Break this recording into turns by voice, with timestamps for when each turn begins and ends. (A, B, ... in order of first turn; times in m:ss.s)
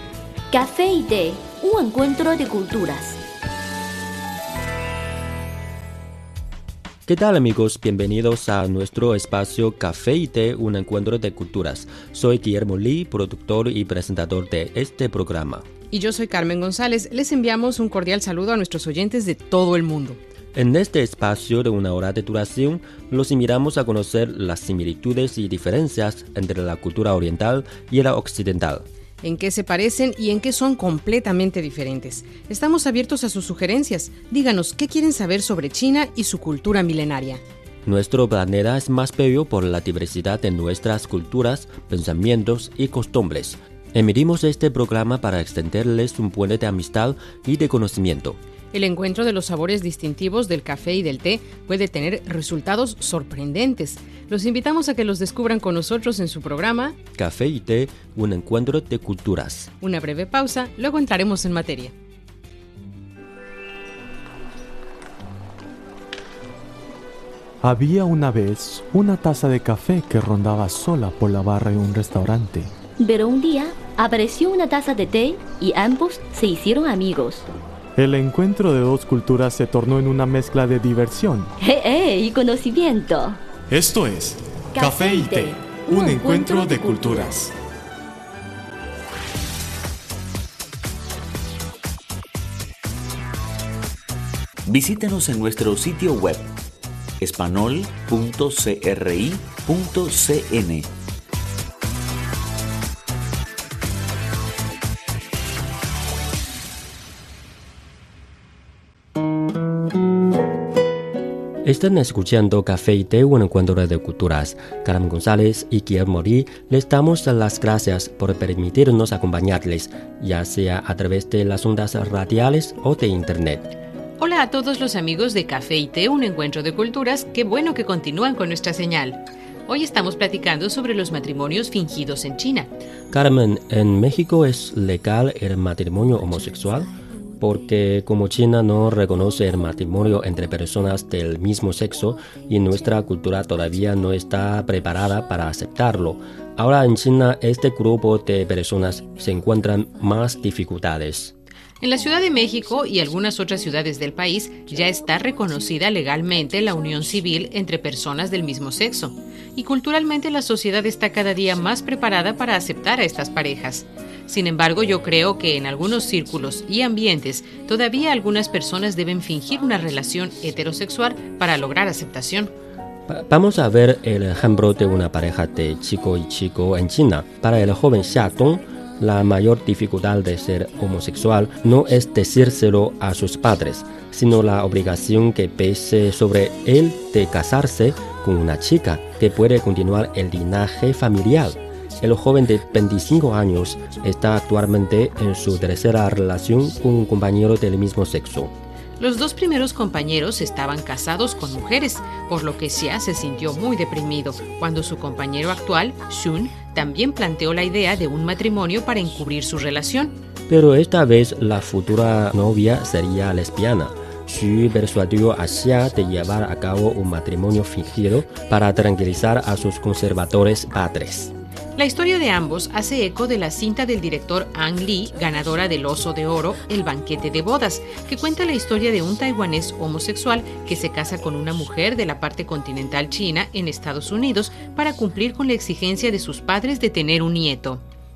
0:00.5-0:03.2 A
0:07.0-0:15.6 B
0:15.9-0:20.2 C
0:20.5-0:28.8 B
0:29.2-0:37.4 C
0:37.8-0:48.4 B
0:48.7-0:57.0 C
0:57.2-0:59.7 B
0:59.8-1:01.9 C
1:07.6-1:12.7 D
1:13.0-1:17.5 A
1:18.0-1:21.5 D
1:21.6-1:23.4 A
1:23.7-1:27.5 D
1:24.7-1:27.3 A
1:34.6-1:36.5 E
1:37.2-1:40.9 E
1:51.6-2:03.7 B
2:04.2-2:12.7 C
2:13.1-2:31.3 B
2:31.8-2:52.5 C
2:53.1-3:18.5 B
3:19.0-3:30.1 C
3:30.5-3:41.3 B
3:41.8-3:57.8 C